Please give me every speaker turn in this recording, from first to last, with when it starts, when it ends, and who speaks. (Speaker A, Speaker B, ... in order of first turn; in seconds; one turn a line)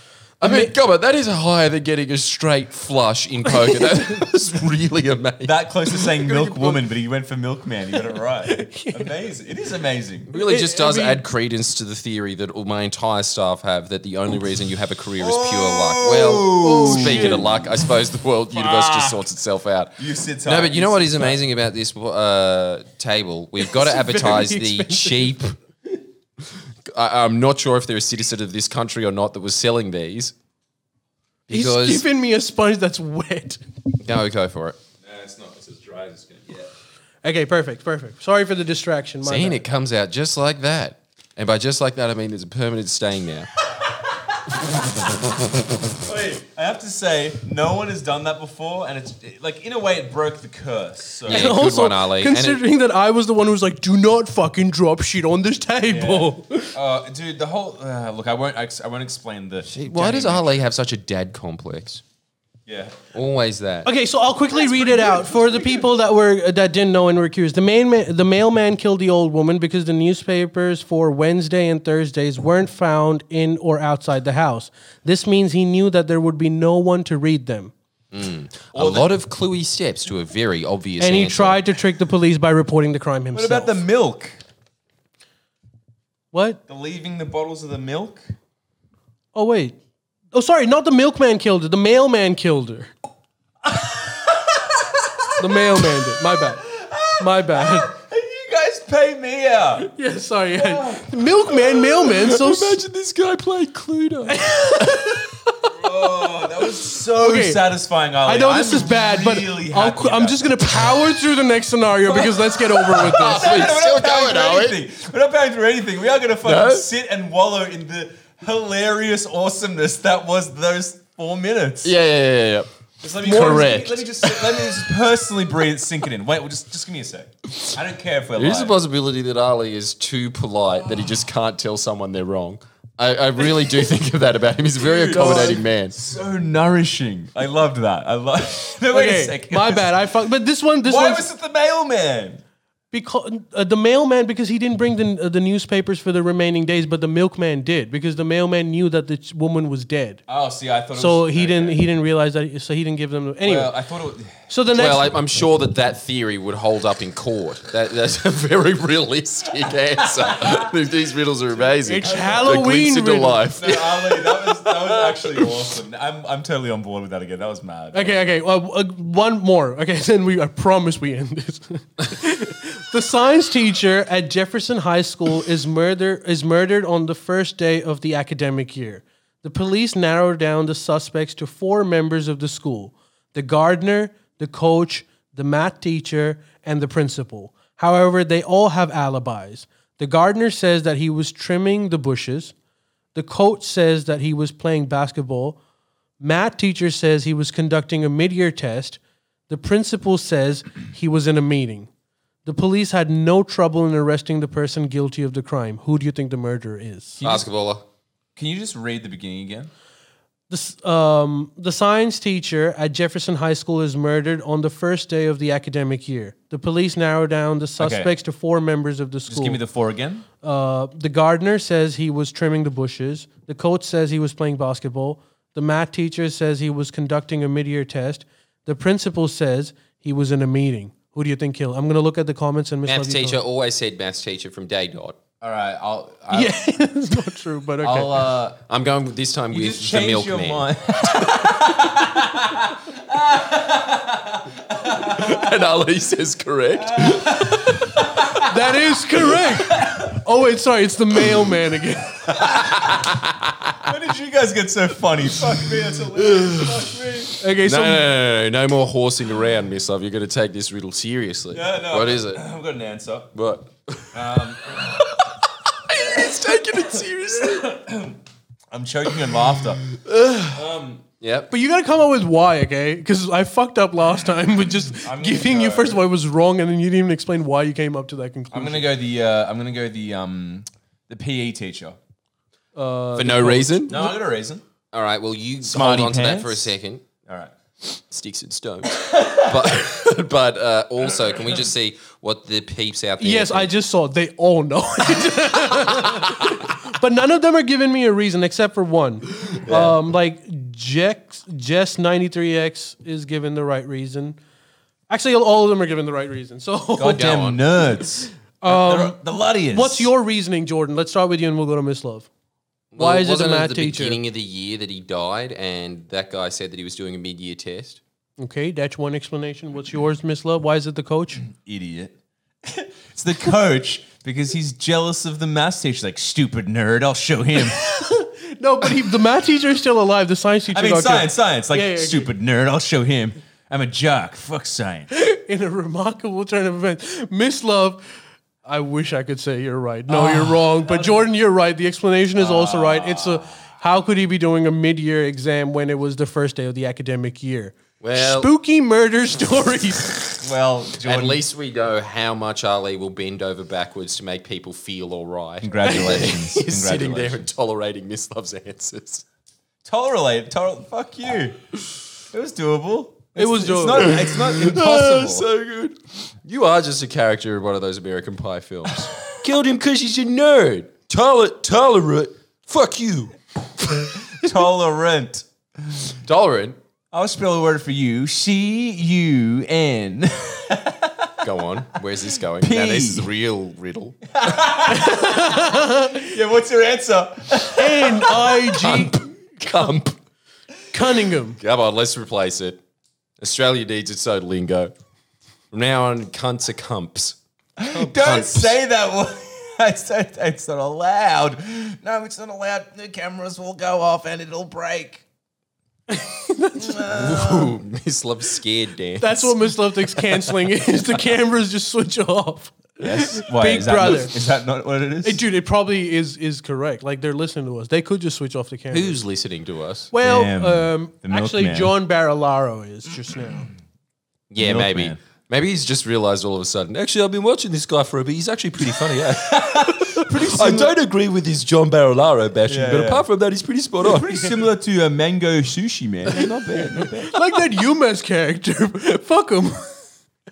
Speaker A: 0.4-5.6
Speaker B: 0.4-0.7
Speaker C: 5.4-10.3
Speaker B: 6.2-6.8
Speaker B: 8.4-9.1
Speaker A: 10.3-25.6
Speaker B: 10.3-11.2
Speaker C: 15.2-17.7
Speaker B: 16.6-17.5
Speaker C: 18.5-19.2
Speaker C: 20.0-21.4
Speaker B: 23.6-25.4
Speaker A: 26.9-30.3
Speaker A: 31.5-32.0
Speaker B: 31.5-33.6
Speaker A: 34.0-34.8
Speaker C: 35.0-36.7
Speaker B: 37.2-39.6
Speaker A: 39.2-43.5
Speaker C: 46.0-51.6
Speaker B: 51.3-56.8
Speaker A: 51.3-52.6
Speaker C: 55.8-60.6
Speaker A: 59.7-62.0
Speaker C: 62.7-63.0
Speaker A: 63.1-63.9
Speaker B: 63.9-77.7
Speaker C: 64.7-65.5
Speaker A: 78.1-81.6
Speaker C: 78.7-79.1
Speaker B: 81.0-83.8
Speaker C: 83.3-84.4
Speaker B: 86.3-86.6
Speaker C: 86.7-88.2
Speaker B: 89.3-89.8
Speaker B: 90.3-92.9
Speaker C: 93.7-95.3
Speaker B: 95.4-96.7
Speaker C: 96.7-99.9
Speaker B: 97.2-97.9
Speaker B: 99.8-102.8
Speaker C: 100.5-101.5
Speaker A: 102.0-105.1
Speaker B: 104.3-105.7
Speaker C: 105.7-110.6
Speaker B: 107.1-107.7
Speaker B: 108.2-113.6
Speaker A: 112.3-114.8
Speaker C: 112.9-121.9
Speaker A: 116.4-116.9
Speaker A: 121.8-124.8
Speaker C: 123.0-128.8
Speaker A: 128.4-136.0
Speaker C: 134.8-140.0
Speaker B: 135.1-135.6
Speaker B: 138.9-141.3
Speaker C: 140.8-142.4
Speaker B: 142.9-150.2
Speaker C: 150.3-151.8
Speaker B: 150.9-153.7
Speaker C: 153.4-154.4
Speaker B: 154.5-155.1
Speaker A: 154.7-165.5
Speaker C: 160.2-160.7
Speaker C: 161.6-162.6
Speaker B: 161.8-163.4
Speaker C: 163.5-168.3
Speaker B: 167.9-192.5
Speaker B: 193.2-195.6
Speaker B: 196.2-201.9
Speaker B: 202.4-207.2
Speaker C: 207.2-207.5
Speaker A: 207.2-207.9
Speaker C: 208.4-209.7
Speaker B: 210.5-219.6
Speaker C: 217.8-218.1
Speaker C: 219.3-220.3
Speaker B: 220.4-233.4
Speaker A: 232.9-235.2
Speaker C: 235.4-236.6
Speaker B: 236.3-238.3
Speaker C: 237.8-238.6
Speaker A: 238.5-240.7
Speaker C: 239.5-245.6
Speaker A: 244.9-247.9
Speaker C: 246.8-248.5
Speaker B: 248.4-252.6
Speaker C: 249.4-250.2
Speaker A: 252.3-253.9
Speaker C: 252.4-253.1
Speaker C: 253.8-257.3
Speaker A: 256.1-257.0
Speaker B: 257.4-258.1
Speaker A: 257.6-262.4
Speaker C: 261.5-263.3
Speaker A: 263.3-267.7
Speaker C: 264.1-265.0
Speaker C: 265.9-268.2
Speaker C: 268.7-269.9
Speaker A: 269.9-270.6
Speaker C: 270.5-271.0
Speaker A: 271.2-271.5
Speaker B: 271.5-278.9
Speaker C: 274.8-276.0
Speaker C: 278.5-282.0
Speaker B: 282.8-284.1
Speaker A: 283.2-284.0
Speaker C: 283.9-284.6
Speaker A: 284.9-287.1
Speaker C: 285.6-286.7
Speaker C: 287.3-287.5
Speaker A: 287.8-293.7
Speaker C: 289.0-289.8
Speaker B: 293.2-304.4
Speaker A: 299.7-300.0
Speaker B: 305.1-307.3
Speaker C: 307.0-310.1
Speaker A: 307.1-307.6
Speaker B: 308.6-312.3
Speaker A: 312.9-318.0
Speaker B: 313.0-314.2
Speaker B: 318.4-321.5
Speaker C: 321.4-328.1
Speaker B: 327.6-332.3
Speaker C: 330.7-335.1
Speaker B: 335.1-338.0
Speaker B: 338.6-350.4
Speaker C: 340.1-341.2
Speaker C: 342.4-343.6
Speaker A: 348.0-348.5
Speaker C: 350.4-351.4
Speaker A: 351.0-359.2
Speaker C: 355.6-357.5
Speaker C: 359.9-361.7
Speaker C: 362.3-365.5
Speaker B: 363.4-364.2
Speaker A: 363.9-374.5
Speaker C: 374.3-376.2
Speaker A: 376.2-376.8
Speaker C: 377.1-381.5
Speaker A: 381.4-384.2
Speaker C: 382.6-383.3
Speaker C: 384.3-388.6
Speaker B: 384.9-386.3
Speaker B: 387.8-389.2
Speaker A: 388.7-390.2
Speaker B: 390.9-391.6
Speaker A: 391.6-392.8
Speaker A: 393.4-394.9
Speaker A: 395.7-397.4
Speaker C: 397.8-405.2
Speaker A: 397.9-398.8
Speaker B: 406.1-407.1
Speaker C: 406.8-407.8
Speaker A: 407.1-410.5
Speaker B: 409.2-414.4
Speaker C: 413.0-415.4
Speaker B: 415.2-419.2
Speaker A: 418.9-420.1
Speaker B: 420.1-423.7
Speaker C: 420.2-422.0
Speaker A: 424.5-434.4
Speaker C: 424.6-425.2
Speaker C: 429.4-430.9
Speaker C: 432.7-433.3
Speaker C: 434.0-437.4
Speaker B: 437.3-440.0